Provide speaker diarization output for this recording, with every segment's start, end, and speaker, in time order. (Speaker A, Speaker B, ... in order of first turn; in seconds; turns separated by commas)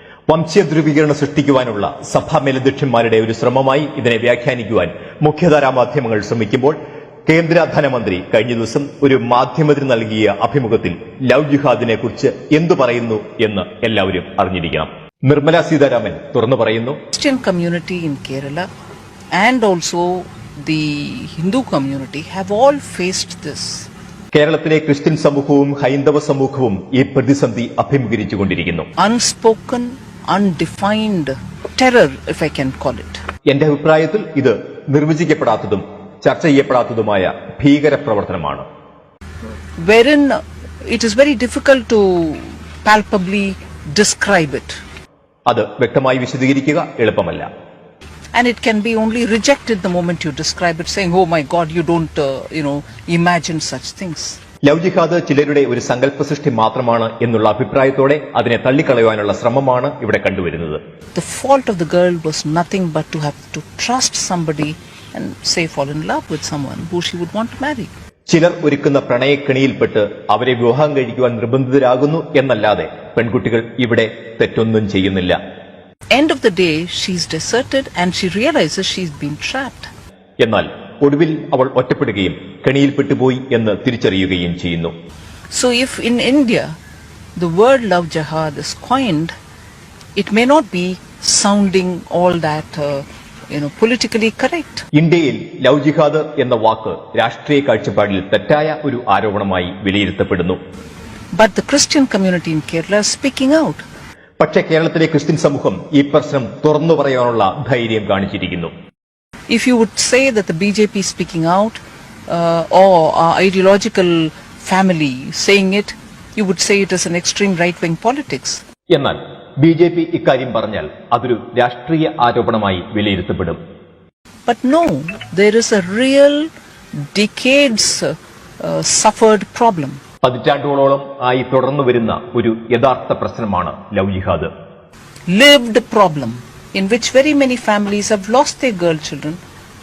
Speaker A: 0.3-17.0, Speaker B: 17.1-18.7, Speaker B: 19.4-23.9, Speaker A: 24.3-28.9, Speaker B: 29.0-33.2, Speaker A: 33.5-38.7, Speaker B: 39.8-40.4, Speaker B: 40.9-44.8, Speaker A: 45.5-47.5, Speaker B: 48.4-54.4, Speaker A: 54.6-60.8, Speaker B: 61.1-67.9, Speaker A: 68.3-75.4, Speaker B: 76.1-79.9, Speaker A: 80.4-84.9, Speaker B: 85.5-86.7, Speaker B: 87.4-89.3, Speaker B: 90.2-94.8, Speaker A: 94.9-100.6, Speaker B: 101.3-103.8, Speaker A: 104.4-108.7, Speaker B: 109.5-118.6, Speaker A: 118.9-123.6, Speaker B: 124.5-126.5, Speaker B: 127.0-130.0, Speaker A: 130.2-134.5, Speaker B: 135.3-139.4